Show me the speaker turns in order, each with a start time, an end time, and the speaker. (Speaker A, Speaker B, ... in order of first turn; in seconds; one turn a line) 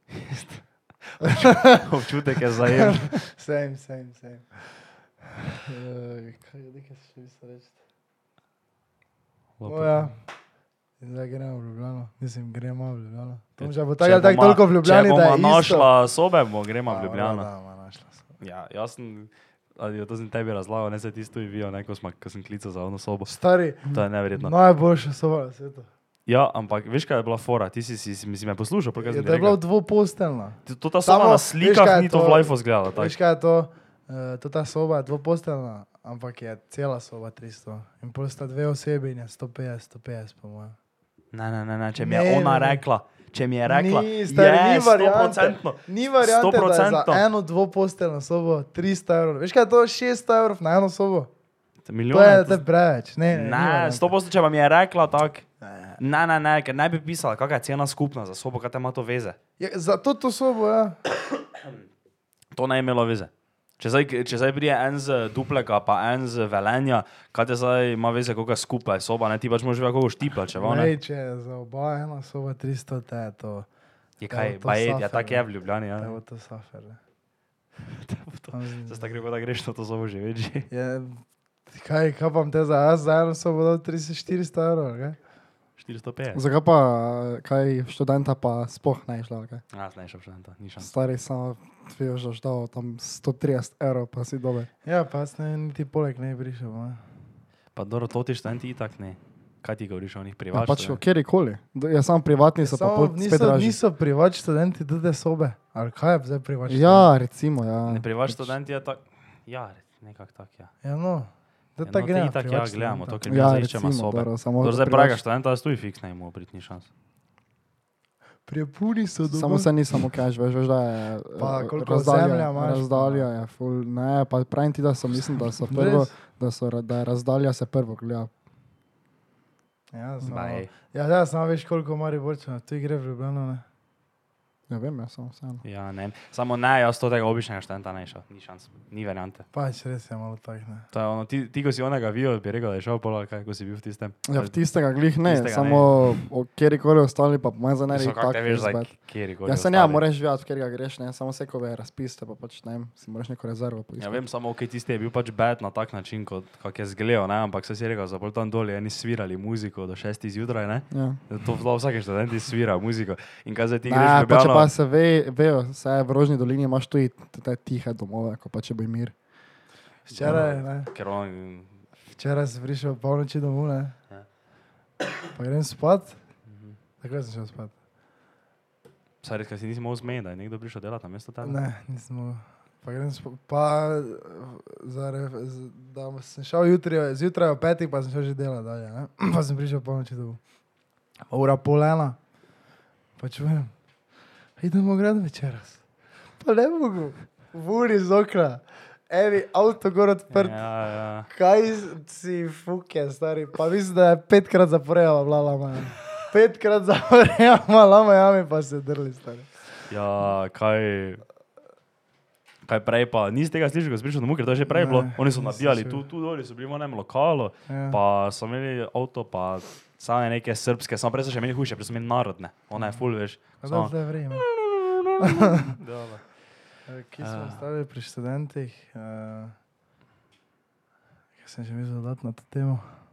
Speaker A: 0.1-3.2
Speaker B: 1.2-1.9
Speaker B: 2.8-5.0
Speaker B: 5.6-7.8
Speaker A: 9.6-10.1
Speaker B: 9.7-10.2
Speaker B: 11.0-15.9
Speaker A: 13.6-17.5
Speaker B: 16.9-18.3
Speaker A: 18.4-24.5
Speaker B: 23.3-25.9
Speaker A: 26.3-29.6
Speaker B: 29.0-40.8
Speaker A: 30.7-33.1
Speaker A: 41.3-47.2
Speaker B: 42.0-42.8
Speaker B: 43.7-51.3
Speaker A: 51.9-52.6
Speaker B: 52.1-54.1
Speaker A: 53.3-59.4
Speaker B: 55.6-56.0
Speaker B: 59.6-61.0
Speaker A: 62.5-70.9
Speaker B: 70.6-73.7
Speaker A: 74.2-76.2
Speaker B: 74.3-75.4
Speaker B: 76.0-77.0
Speaker A: 77.8-80.7
Speaker B: 78.5-79.1
Speaker B: 80.7-85.2
Speaker A: 85.8-86.4
Speaker C: 86.3-89.6
Speaker A: 89.7-90.9
Speaker C: 90.8-94.7
Speaker B: 94.8-97.0
Speaker A: 97.8-101.0
Speaker C: 100.5-103.8
Speaker B: 102.6-107.1
Speaker C: 106.7-108.5
Speaker A: 107.9-110.7
Speaker B: 110.8-113.2
Speaker A: 111.8-116.9
Speaker C: 113.3-115.2
Speaker B: 118.5-119.7
Speaker C: 119.3-128.3
Speaker B: 121.4-123.3
Speaker B: 125.7-126.1
Speaker B: 129.9-133.6
Speaker A: 130.3-130.7
Speaker C: 134.7-135.6
Speaker A: 135.6-139.5
Speaker B: 139.5-140.9
Speaker A: 140.9-144.6
Speaker C: 144.3-154.2
Speaker A: 145.2-146.2
Speaker A: 147.9-150.0
Speaker A: 154.0-164.7
Speaker C: 160.9-161.2
Speaker C: 163.8-169.2
Speaker A: 170.1-171.8
Speaker B: 170.1-170.9
Speaker B: 172.1-174.0
Speaker B: 175.3-176.2
Speaker A: 176.5-176.8
Speaker B: 177.0-177.8
Speaker A: 179.2-181.6
Speaker B: 181.4-190.4
Speaker B: 191.3-192.2
Speaker B: 193.2-193.7
Speaker B: 194.6-195.8
Speaker B: 196.4-200.7
Speaker A: 200.3-201.3
Speaker B: 201.3-209.6
Speaker A: 209.9-211.2
Speaker A: 212.7-226.4
Speaker B: 214.7-216.0
Speaker B: 217.7-218.0
Speaker B: 222.8-224.5
Speaker B: 225.2-225.8
Speaker B: 226.9-229.6
Speaker A: 227.2-227.6
Speaker B: 231.4-233.0